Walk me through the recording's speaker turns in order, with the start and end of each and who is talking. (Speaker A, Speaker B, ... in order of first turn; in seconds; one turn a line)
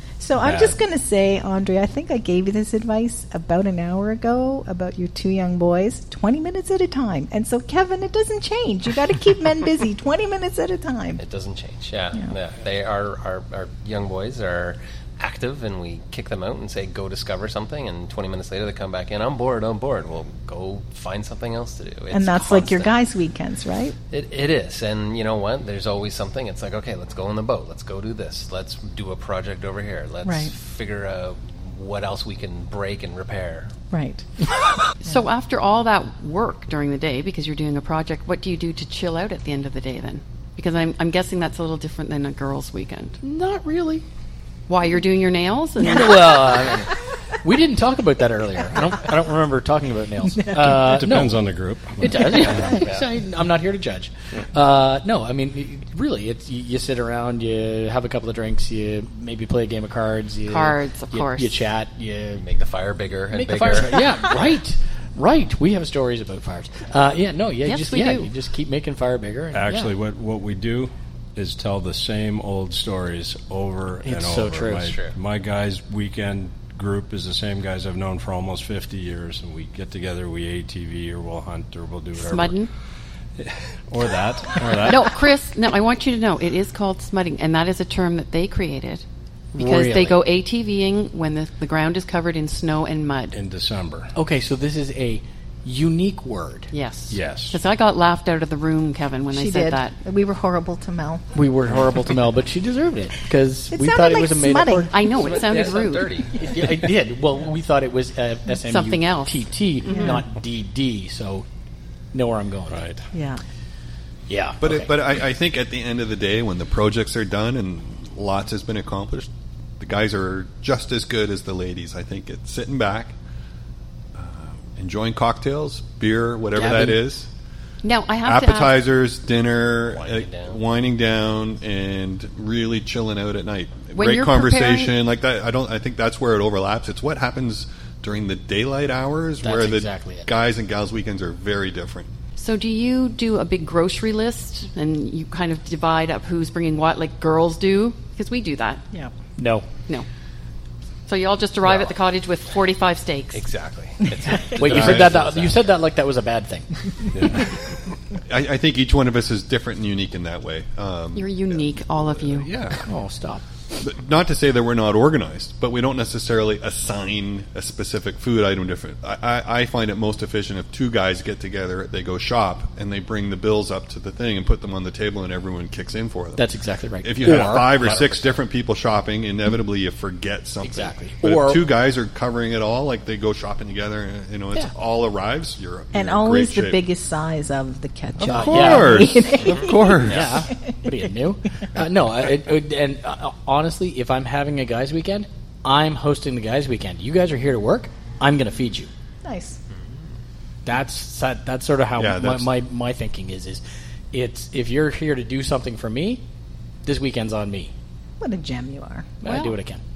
Speaker A: 0.2-11.2
Speaker B: 0.4-0.8
Speaker C: 11.2-22.9
Speaker A: 22.1-24.0
Speaker C: 24.1-33.7
Speaker A: 30.2-30.5
Speaker A: 33.9-34.3
Speaker D: 35.0-43.2
Speaker E: 43.2-44.0
Speaker D: 44.7-46.7
Speaker E: 45.8-62.5
Speaker B: 50.5-52.5
Speaker A: 50.6-51.0
Speaker C: 52.6-53.1
Speaker D: 60.5-61.7
Speaker C: 62.4-64.0
Speaker E: 63.3-70.0
Speaker D: 67.6-68.3
Speaker B: 69.5-82.6
Speaker E: 74.0-74.9
Speaker C: 74.9-75.2
Speaker D: 82.2-82.7
Speaker B: 83.4-85.1
Speaker E: 84.6-85.0
Speaker D: 84.9-89.0
Speaker E: 89.5-90.2
Speaker D: 89.5-93.4
Speaker B: 93.3-94.1
Speaker E: 94.2-96.7
Speaker D: 96.7-100.0
Speaker B: 97.1-97.6
Speaker A: 99.3-101.4
Speaker E: 101.3-105.0
Speaker A: 103.7-105.0
Speaker D: 104.7-106.2
Speaker C: 105.1-106.6
Speaker E: 106.3-111.5
Speaker D: 108.6-109.5
Speaker A: 109.9-110.2
Speaker E: 112.1-112.8
Speaker B: 112.7-113.1
Speaker A: 113.1-113.4
Speaker E: 114.3-114.9
Speaker F: 114.6-123.2
Speaker F: 124.2-127.3
Speaker E: 126.5-127.0
Speaker D: 127.8-128.8
Speaker F: 128.2-142.1
Speaker C: 129.8-130.6
Speaker D: 133.9-134.9
Speaker E: 139.4-140.3
Speaker D: 142.4-148.8
Speaker E: 149.4-149.7
Speaker D: 151.1-153.5
Speaker C: 151.6-151.9
Speaker C: 153.3-155.6
Speaker E: 154.6-156.7
Speaker F: 154.6-155.2
Speaker F: 157.2-157.5
Speaker F: 158.3-162.9
Speaker D: 161.2-162.5
Speaker E: 162.8-163.4
Speaker F: 163.8-176.5
Speaker E: 176.4-178.3
Speaker F: 177.0-186.9
Speaker E: 180.6-181.7
Speaker A: 185.9-190.3
Speaker F: 188.2-190.5
Speaker E: 188.3-189.3
Speaker E: 190.0-198.9
Speaker A: 199.2-199.6
Speaker E: 200.7-206.2
Speaker F: 202.0-202.6
Speaker E: 206.8-207.7
Speaker A: 208.2-209.2
Speaker E: 209.2-209.8
Speaker D: 209.2-209.6